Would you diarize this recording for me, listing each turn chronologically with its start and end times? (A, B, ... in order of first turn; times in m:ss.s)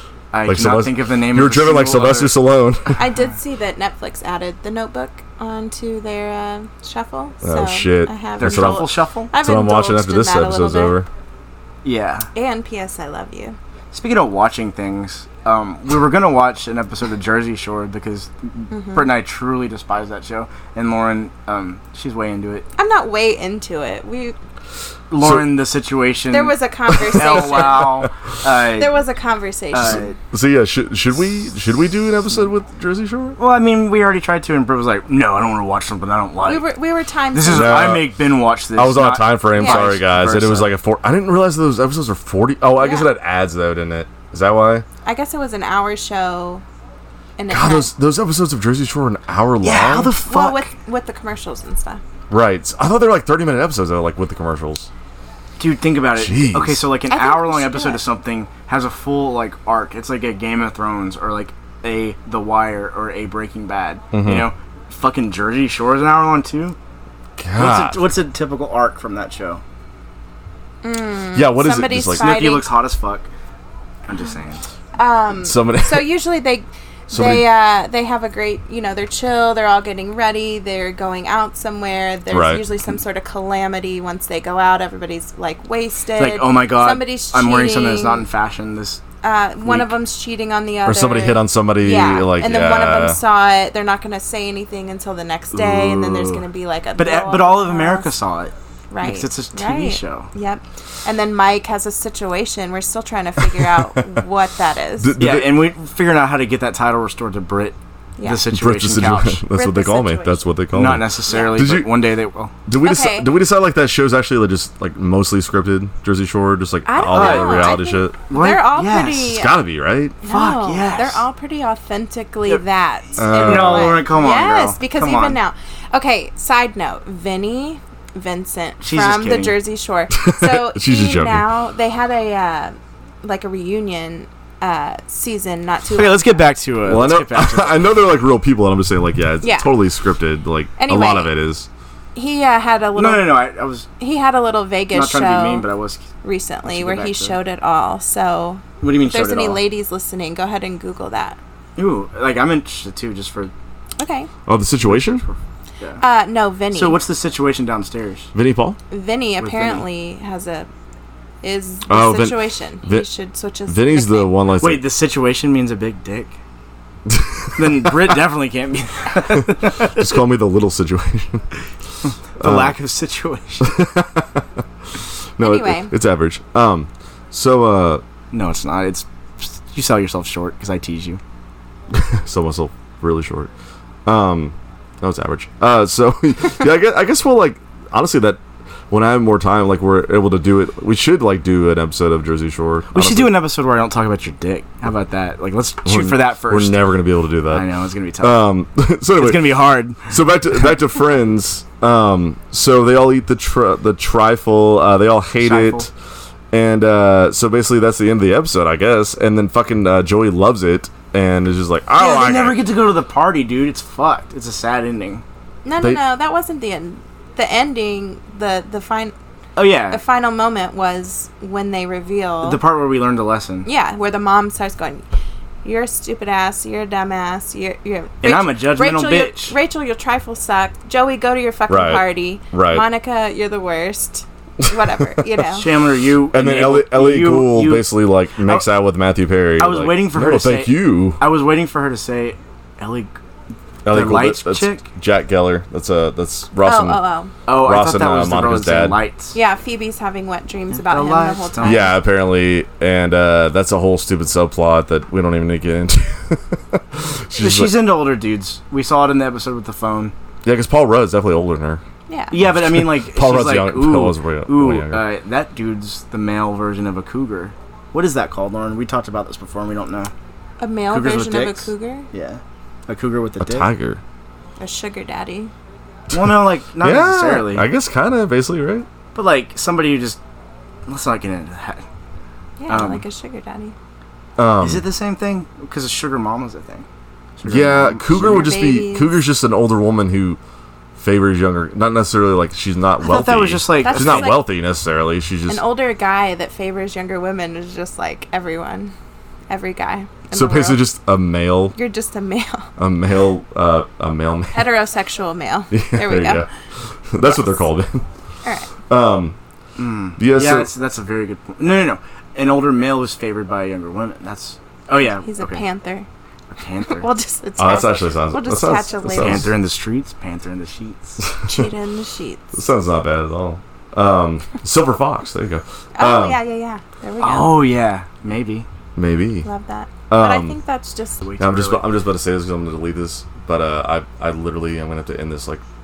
0:00.3-0:02.4 A
0:00.4-0:03.0 B
0:03.0-0:11.0 C
0:07.4-0:11.1 B
0:08.4-0:09.3 A
0:11.8-0:12.3 A
0:12.3-0:13.6 C
0:13.9-0:22.7 A
0:18.7-0:19.1 C
0:22.8-0:24.4 C
0:25.1-0:29.0 A
0:25.2-0:25.5 B
0:26.3-0:28.1 C
0:28.7-0:30.1 C
0:29.7-0:30.2 A
0:30.3-0:33.4 B
0:33.4-0:36.7 A
0:36.4-0:37.9 C
0:37.3-0:40.7 A
0:37.5-0:38.2 B
0:38.7-0:44.8 B
0:39.6-0:40.0 C
0:42.8-0:43.1 C
0:45.0-0:46.6 C
0:47.4-0:47.9 C
0:47.5-0:50.1 B
0:49.6-0:50.7 A
0:50.3-0:52.0 C
0:52.3-0:54.9 B
0:55.6-1:06.8 A
0:56.2-0:56.9 B
0:57.1-0:58.0 C
1:04.1-1:04.5 B
1:07.4-1:08.0 B
1:07.6-1:09.6 A
1:10.8-1:12.7 C
1:11.4-1:12.4 B
1:12.2-1:13.3 A
1:14.1-1:14.7 A
1:15.0-1:28.3 C
1:15.4-1:16.1 B
1:17.1-1:17.5 B
1:22.3-1:22.7 B
1:26.2-1:29.0 A
1:29.2-1:38.2 C
1:29.6-1:29.9 A
1:30.9-1:33.2 B
1:35.5-1:36.4 A
1:37.0-1:40.3 A
1:38.9-1:45.2 C
1:45.0-1:45.6 B
1:45.2-1:49.4 A
1:48.2-1:48.5 C
1:48.5-1:52.0 B
1:49.5-1:50.5 C
1:50.7-1:52.6 A
1:51.3-1:51.8 C
1:52.7-1:58.2 B
1:52.8-1:53.3 C
1:56.8-1:59.6 C
1:57.1-1:59.4 A
1:59.3-2:00.2 B
2:00.2-2:16.4 C
2:00.2-2:01.2 A
2:03.2-2:04.0 B
2:03.2-2:05.4 A
2:08.8-2:09.6 A
2:10.1-2:11.4 B
2:15.9-2:17.9 A
2:16.9-2:21.7 B
2:19.4-2:19.7 C
2:20.8-2:21.3 C
2:22.2-2:23.4 C
2:23.0-2:23.9 A
2:24.0-2:25.7 C
2:24.9-2:26.1 A
2:26.2-2:31.4 C
2:26.7-2:27.4 A
2:28.8-2:29.6 A
2:31.8-2:33.5 A
2:34.0-2:34.3 C
2:34.5-2:35.3 B
2:34.9-2:36.0 A
2:36.0-2:37.0 C
2:36.7-2:38.3 A
2:38.3-2:38.8 B
2:38.9-2:40.7 C
2:39.4-2:39.8 A
2:41.4-2:44.3 C
2:41.9-2:43.1 B
2:43.7-2:44.8 B
2:44.6-2:46.4 A
2:47.1-2:47.6 B
2:47.6-2:50.1 A
2:49.4-2:51.4 B
2:52.4-2:53.7 A
2:52.4-2:52.8 B
2:53.6-2:54.4 B
2:55.4-2:58.0 B
2:55.4-2:55.9 C
2:58.3-3:01.2 A
3:01.9-3:03.5 B
3:04.1-3:13.3 B
3:12.9-3:16.9 A
3:15.8-3:17.7 B
3:17.5-3:18.5 A
3:18.2-3:19.5 B
3:19.2-3:20.1 A
3:20.1-3:25.9 B
3:25.4-3:25.9 A
3:26.5-3:32.6 B
3:32.0-3:35.2 A
3:35.6-3:39.1 C
3:39.6-3:40.0 A
3:39.9-3:42.6 C
3:42.4-3:43.7 A
3:43.6-3:45.0 C
3:45.6-3:55.7 C
3:48.2-3:49.6 A
3:51.7-3:52.9 B
3:54.6-3:55.2 B
3:55.4-3:58.7 A
3:56.3-4:01.2 B
3:59.6-4:03.1 A
4:03.8-4:09.0 B
4:03.9-4:04.9 A
4:06.6-4:07.3 C
4:07.5-4:09.4 A
4:09.3-4:12.0 C
4:10.7-4:11.8 A
4:11.6-4:17.8 B
4:17.4-4:20.1 A
4:20.4-4:21.8 B
4:22.1-4:22.4 C
4:22.3-4:30.1 A
4:22.4-4:25.0 B
4:30.6-4:32.1 C
4:30.9-4:33.7 A
4:33.4-4:34.0 B
4:34.6-4:35.5 C
4:36.1-4:37.7 A
4:36.1-4:38.9 B
4:39.2-4:40.2 A
4:40.9-4:41.8 A
4:42.6-4:43.8 C
4:42.7-4:43.0 A
4:44.4-4:44.9 B
4:44.6-4:46.9 A
4:47.4-4:48.5 A
4:47.5-4:50.4 B
4:48.2-4:49.2 C
4:51.0-4:55.6 B
4:53.0-4:54.4 A
4:53.8-4:54.5 C
4:55.5-4:59.0 C
4:59.5-5:00.9 C
5:00.3-5:01.8 B
5:01.8-5:02.7 C
5:02.8-5:04.7 B
5:04.5-5:06.5 C
5:05.7-5:06.5 B
5:07.1-5:08.0 B
5:08.4-5:08.7 C
5:08.9-5:09.4 B
5:09.8-5:15.7 A
5:10.2-5:10.7 B
5:15.0-5:16.1 C
5:16.6-5:17.1 A
5:16.9-5:19.5 C
5:17.6-5:19.5 B
5:19.2-5:21.2 A
5:21.2-5:21.7 B
5:21.5-5:22.6 C
5:22.5-5:26.4 B
5:26.0-5:27.7 C
5:27.2-5:28.7 A
5:29.0-5:29.5 B
5:29.4-5:31.2 C
5:30.1-5:30.6 B
5:31.2-5:31.9 A
5:31.4-5:35.6 B